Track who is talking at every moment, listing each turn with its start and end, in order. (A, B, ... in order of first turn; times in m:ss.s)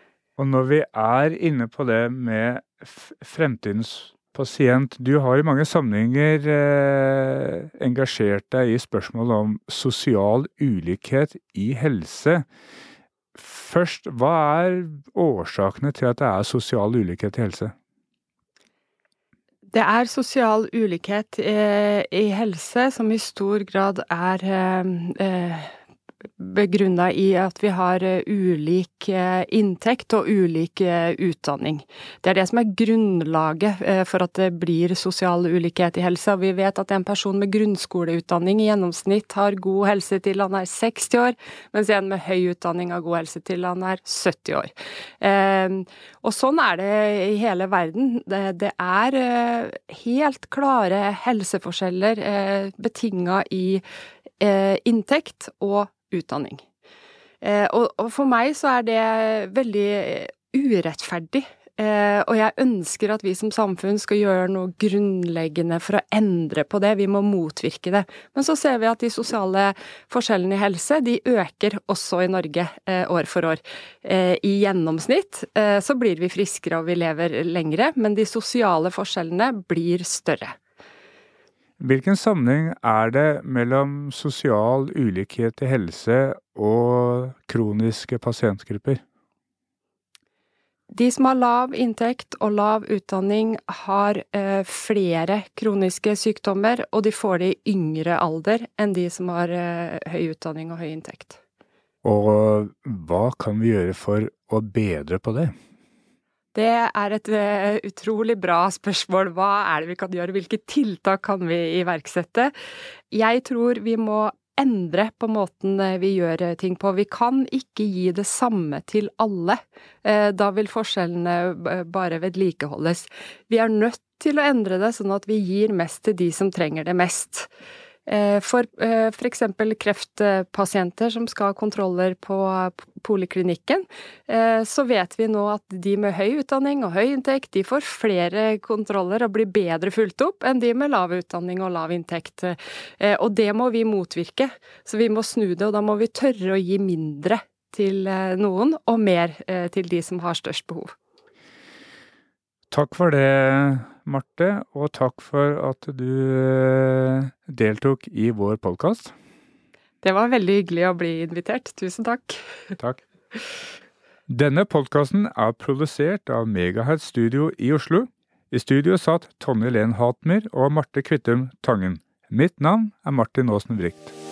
0:00.4-0:12.4 A
0:13.3-0:17.7 A
0:19.7-0:25.7 B
0:26.4-0:53.8 B
0:54.4-0:56.6 B
0:57.4-1:20.5 B
1:21.8-1:29.0 A
1:30.9-1:41.4 B
1:42.0-1:45.5 A
1:46.5-1:52.5 B
1:53.1-2:07.5 B
2:08.1-2:30.9 B
2:32.7-2:39.1 A
2:40.0-2:42.8 B
2:44.3-2:54.1 A